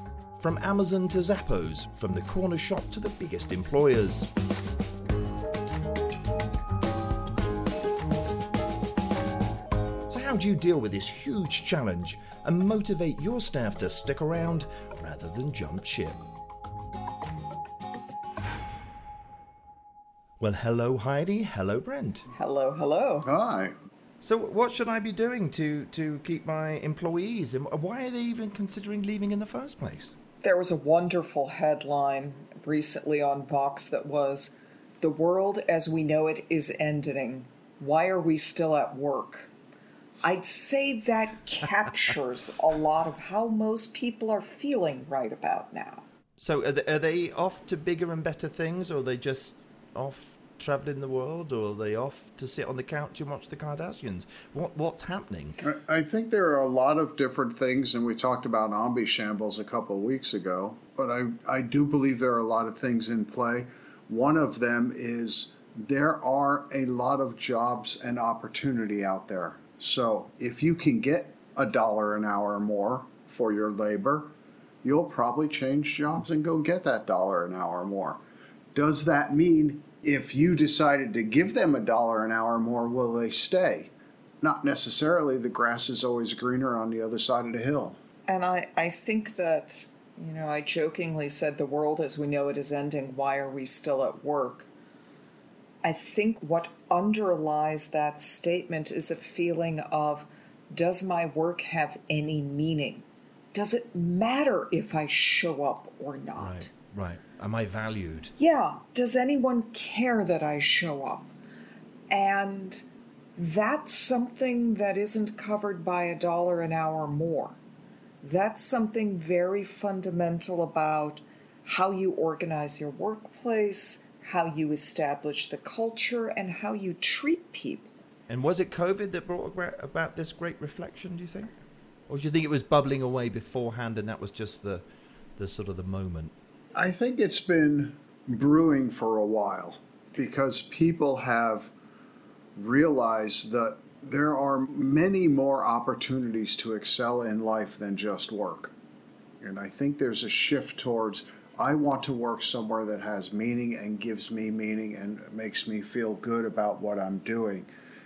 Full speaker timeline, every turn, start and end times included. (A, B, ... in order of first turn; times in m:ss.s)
0:00.4-0:04.3 A
0:10.1-0:16.2 A
0:20.4-0:22.2 A
0:22.3-0:23.3 B
0:23.2-0:23.7 C
0:24.2-0:30.1 A
0:30.4-0:39.5 B
0:40.2-0:46.0 B
0:46.4-0:55.6 A
0:55.6-1:14.3 C
1:14.8-1:18.2 C
1:18.7-1:28.0 C
1:28.3-1:34.7 B
1:35.8-1:46.7 B
1:46.4-1:48.3 A
1:48.4-1:51.3 B
1:52.1-1:57.6 B
1:58.2-2:08.0 B
2:08.3-2:11.5 A
2:12.1-2:14.8 A
2:15.4-2:16.3 A
2:16.7-2:21.7 C
2:22.6-2:28.7 C
2:29.4-2:37.7 C